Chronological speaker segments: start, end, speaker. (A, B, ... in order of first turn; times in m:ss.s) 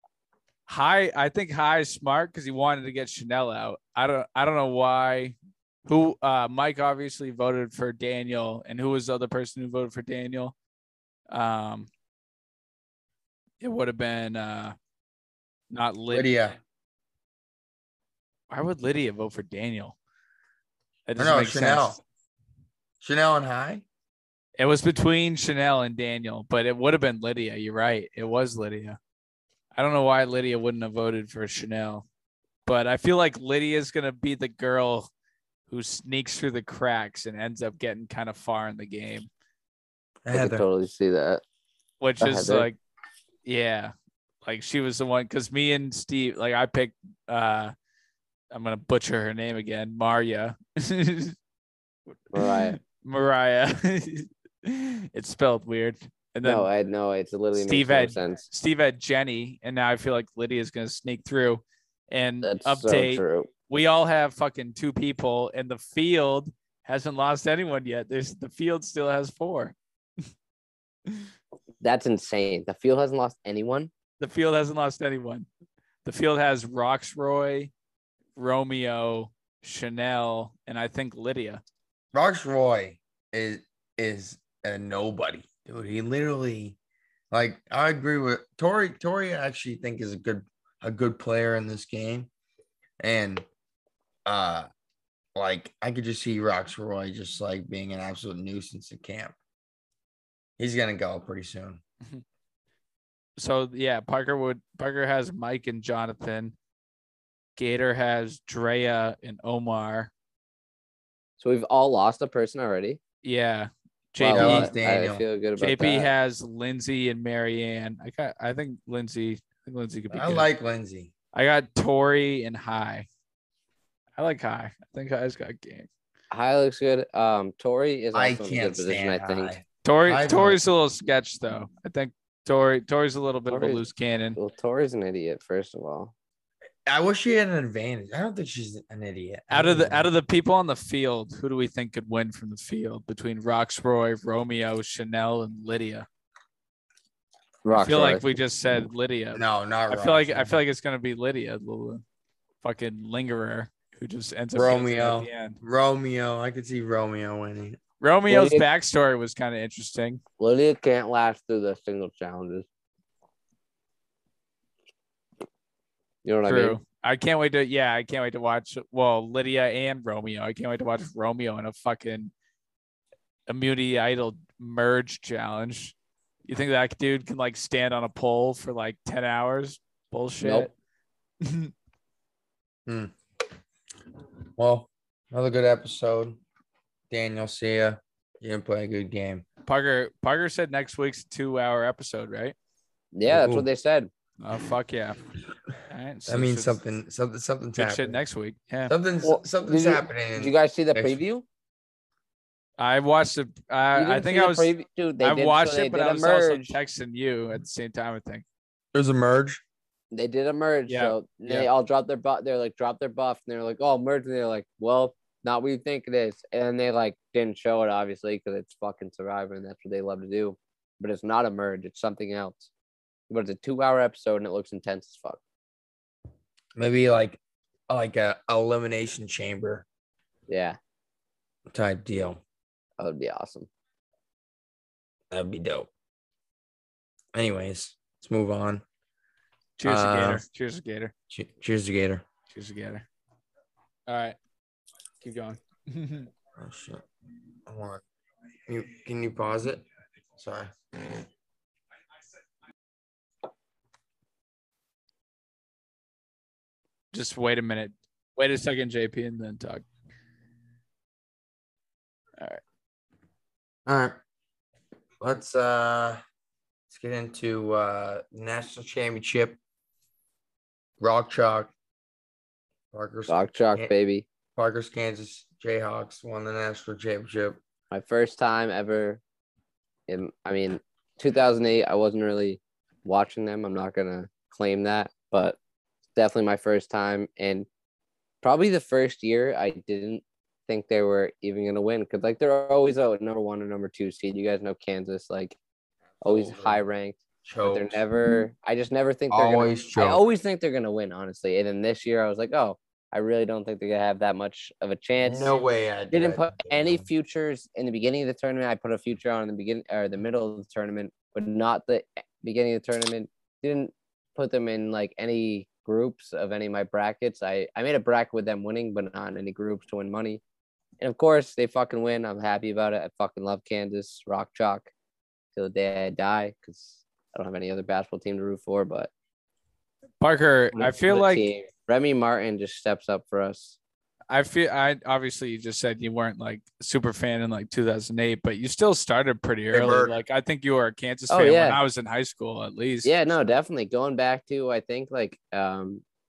0:00.7-0:10.5 A
0:11.3-0:11.9 A
0:13.6-0:14.8 A
0:15.7-0:16.3 A
0:16.1-0:16.6 B
0:18.5-0:20.0 A
0:21.1-0:22.0 A
0:21.2-0:22.0 B
0:23.0-0:23.8 B
0:24.6-0:29.0 A
0:29.8-0:32.0 A
0:32.7-0:35.1 A
0:35.7-0:39.3 A
0:40.2-0:40.6 B
0:40.3-0:41.4 C
0:42.0-0:42.8 A
0:42.2-0:42.7 C
0:43.5-0:43.9 A
0:44.4-0:47.7 A
0:48.5-0:51.4 A
0:52.3-0:52.8 C
0:52.4-0:56.7 A
0:56.4-0:58.4 C
0:57.5-1:09.8 A
1:02.4-1:03.5 C
1:11.8-1:13.9 C
1:14.2-1:15.5 A
1:16.0-1:17.7 A
1:18.4-1:21.6 A
1:22.1-1:26.8 B
1:27.3-1:32.3 B
1:33.0-1:33.5 B
1:34.2-1:34.7 B
1:35.4-1:39.3 B
1:40.6-1:41.8 B
1:43.4-1:46.5 A
1:47.6-1:50.1 A
1:51.4-1:53.0 C
1:53.2-1:54.7 A
1:54.2-1:56.1 C
1:54.3-1:55.2 B
1:55.6-2:00.5 A
2:00.1-2:01.1 B
2:01.3-2:03.1 A
2:04.2-2:05.9 A
2:06.3-2:09.5 C
2:08.1-2:10.6 B
2:09.8-2:14.4 A
2:13.5-2:13.8 C
2:14.4-2:16.1 C
2:16.9-2:20.1 B
2:19.5-2:26.1 A
2:27.6-2:28.3 C
2:27.8-2:32.0 A
2:29.3-2:30.6 B
2:32.6-2:35.6 A
2:34.5-2:37.8 B
2:38.0-2:40.2 A
2:38.3-2:38.6 C
2:40.4-2:42.7 C
2:46.2-2:46.8 C
2:46.5-2:52.3 A
2:53.5-2:55.9 A
2:56.5-3:00.7 A
3:00.4-3:00.7 C
3:01.4-3:01.7 A
3:02.9-3:03.1 B
3:04.6-3:06.4 B
3:07.1-3:09.4 B
3:09.7-3:12.6 A
3:13.1-3:14.1 C
3:13.3-3:13.7 B
3:14.4-3:15.2 A
3:15.9-3:16.8 A
3:16.3-3:18.2 B
3:17.8-3:18.9 A
3:18.9-3:21.2 B
3:19.2-3:21.4 C
3:22.8-3:28.4 A
3:23.9-3:26.8 C
3:28.9-3:29.6 B
3:30.1-3:42.7 C
3:30.9-3:31.7 A
3:43.3-3:45.4 C
3:46.8-3:49.8 B
3:50.5-3:50.8 C
3:51.7-3:52.4 B
3:53.0-3:53.7 C
3:55.3-3:55.9 B
3:57.3-3:58.8 B
3:59.8-4:01.1 A
3:59.8-4:00.4 B
4:01.3-4:02.2 B
4:02.5-4:03.1 A
4:04.1-4:04.4 A
4:05.2-4:06.3 A
4:06.6-4:07.0 B
4:07.7-4:08.0 B
4:08.7-4:09.8 B
4:10.4-4:11.1 B
4:17.1-4:19.8 A
4:23.9-4:24.2 B
4:25.2-4:26.2 B
4:26.9-4:29.6 B
4:31.0-4:31.7 B
4:32.9-4:33.9 B
4:33.3-4:34.2 C
4:34.6-4:37.6 B
4:37.9-4:39.2 C
4:40.1-4:45.6 C
4:46.2-4:47.7 C
4:48.4-4:55.6 C
4:56.2-4:56.8 B
4:56.2-5:05.6 C
4:57.4-4:58.0 B
4:59.3-5:00.2 B
5:05.2-5:07.1 B
5:06.1-5:20.4 C
5:21.0-5:24.9 C
5:25.6-5:29.1 C
5:30.2-5:31.5 A
5:30.8-5:33.8 C
5:34.3-5:43.2 A
5:39.7-5:40.2 B
5:41.3-5:41.8 C
5:43.0-5:46.0 C